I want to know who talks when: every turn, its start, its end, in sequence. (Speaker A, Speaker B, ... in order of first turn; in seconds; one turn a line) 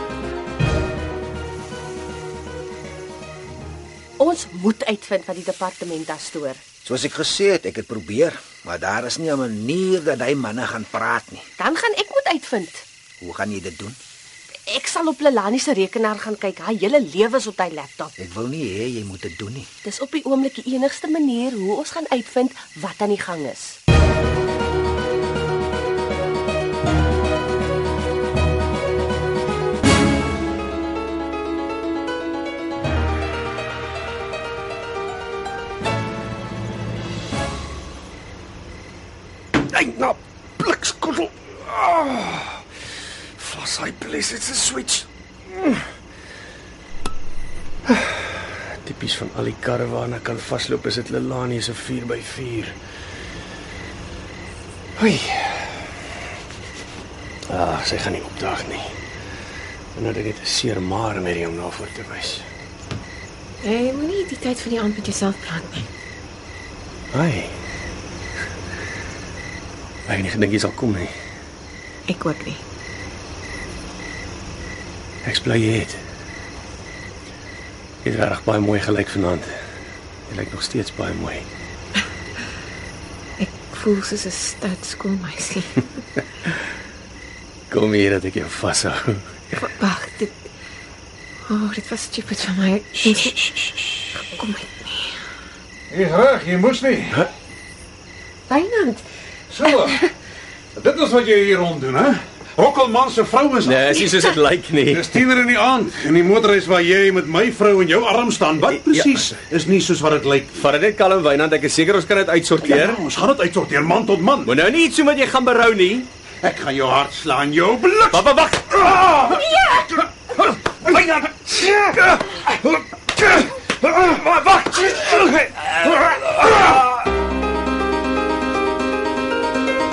Speaker A: 4.2-6.6
Speaker B: 6.8-11.5
Speaker A: 11.6-12.8
Speaker B: 13.2-14.0
Speaker A: 14.7-18.1
Speaker B: 18.2-19.7
Speaker A: 19.9-23.8
Speaker C: 39.6-42.6
Speaker C: 43.4-45.8
Speaker C: 47.9-52.8
Speaker C: 55.0-55.8
Speaker C: 57.5-58.9
Speaker C: 60.0-62.5
Speaker D: 63.6-65.9
Speaker C: 67.1-67.5
Speaker C: 70.1-71.1
Speaker D: 72.1-72.6
Speaker C: 75.2-76.0
Speaker C: 78.0-79.6
Speaker C: 80.3-81.5
Speaker D: 83.4-85.8
Speaker C: 87.7-89.3
Speaker D: 89.5-90.4
Speaker D: 91.5-93.4
Speaker C: 93.0-94.0
Speaker D: 94.1-95.2
Speaker E: 95.9-97.3
Speaker D: 98.5-99.0
Speaker E: 99.5-100.1
Speaker E: 100.8-103.9
Speaker C: 103.6-105.1
Speaker E: 104.9-110.7
Speaker C: 108.7-109.3
Speaker C: 110.6-113.0
Speaker E: 112.6-114.5
Speaker C: 114.5-116.1
Speaker E: 116.4-118.3
Speaker C: 118.1-119.8
Speaker E: 118.9-119.5
Speaker E: 120.9-122.8
Speaker E: 123.8-125.4
Speaker C: 124.7-125.0